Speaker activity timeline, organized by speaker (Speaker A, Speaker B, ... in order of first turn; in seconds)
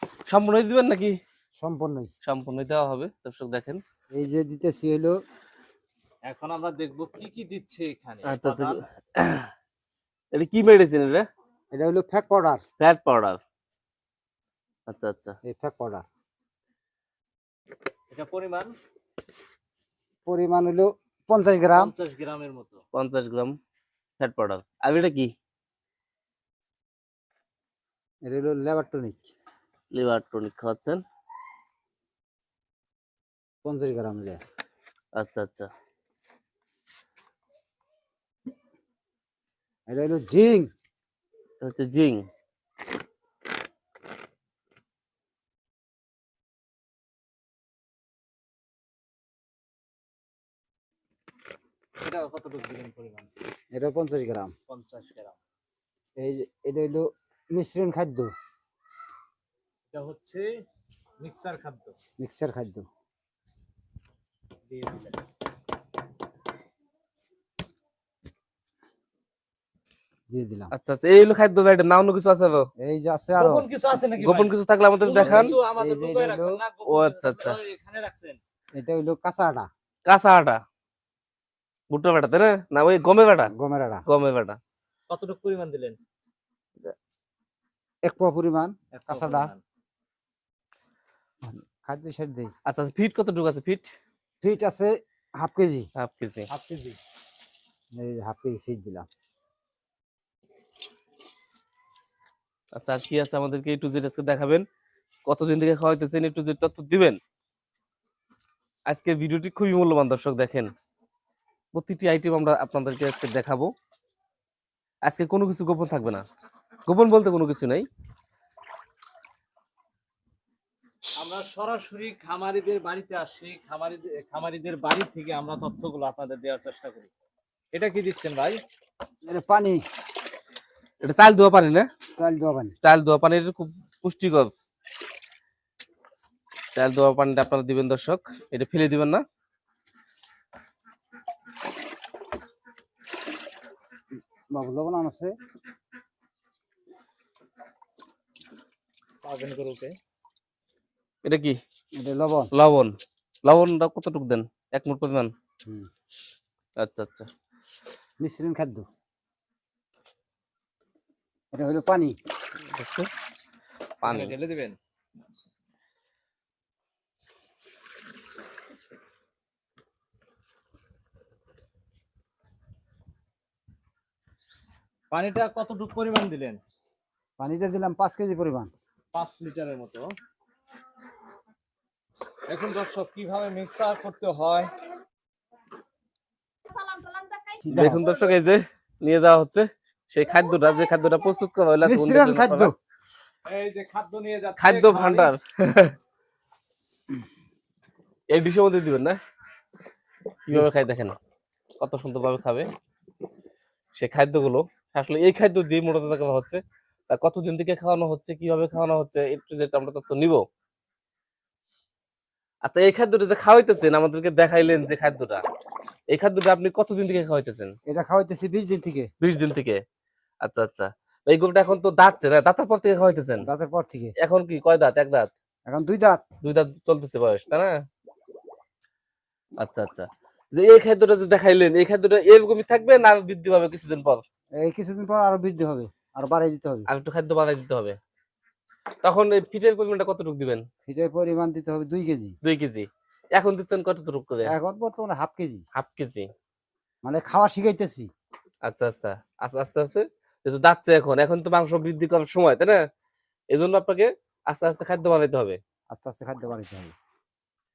Speaker A: 0.3-1.2, 2.2-3.8, 8.2-9.5, 10.3-11.3, 12.8-13.4, 14.9-15.4, 22.9-23.5, 24.2-25.3, 29.9-31.0, 35.2-35.7, 41.6-42.2, 70.7-72.7, 74.2-75.6, 76.9-77.6, 80.1-80.6, 81.9-83.5, 84.1-84.6, 92.7-93.9, 96.0-96.5, 102.8-104.6, 105.3-107.2, 108.9-110.7, 111.8-113.7, 115.1-116.2, 116.9-117.9, 131.0-131.9, 132.8-134.5, 136.8-139.2, 151.2-151.6, 152.5-152.9, 153.5-155.3, 156.8-157.3, 162.7-163.1, 164.0-164.3, 187.7-192.7, 194.6-195.9, 198.3-199.2, 200.5-201.2, 201.8-202.7, 204.0-210.4, 212.7-215.4, 216.1-217.7, 219.2-219.8, 220.4-223.4, 224.2-225.3, 226.4-227.7, 229.6-234.2, 236.9-238.0, 239.0-240.6, 242.4-244.5, 245.8-246.3, 248.7-252.8, 253.5-255.6
Speaker B: 1.6-2.1, 4.1-5.2, 11.7-12.6, 15.4-16.1, 20.3-21.9, 28.2-29.3, 33.6-34.4, 39.9-40.7, 53.7-54.5, 56.2-58.3, 62.2-62.9, 70.3-70.7, 72.8-73.7, 75.2-76.6, 78.8-79.7, 83.5-84.0, 88.1-89.5, 91.5-92.5, 94.4-95.9, 98.0-99.1, 129.3-129.8, 132.2-132.8, 144.5-145.3, 152.0-152.5, 158.2-158.9, 161.5-162.2, 177.4-178.7, 187.6-188.0, 191.8-192.8, 217.9-219.1, 223.4-224.1, 225.7-226.2, 234.6-236.9, 240.8-242.4, 244.5-245.6, 247.0-248.1, 255.9-256.9
Speaker C: 6.3-8.8, 18.1-18.7, 21.7-22.8, 52.0-53.3, 54.7-55.4, 59.9-60.5, 61.2-62.0, 64.7-65.2, 73.4-78.4, 85.1-86.0, 89.0-89.6, 96.5-97.0, 121.2-127.1, 127.7-128.6, 149.2-149.9, 164.0-164.8, 175.1-176.6, 179.1-180.1, 182.5-184.7, 193.5-195.3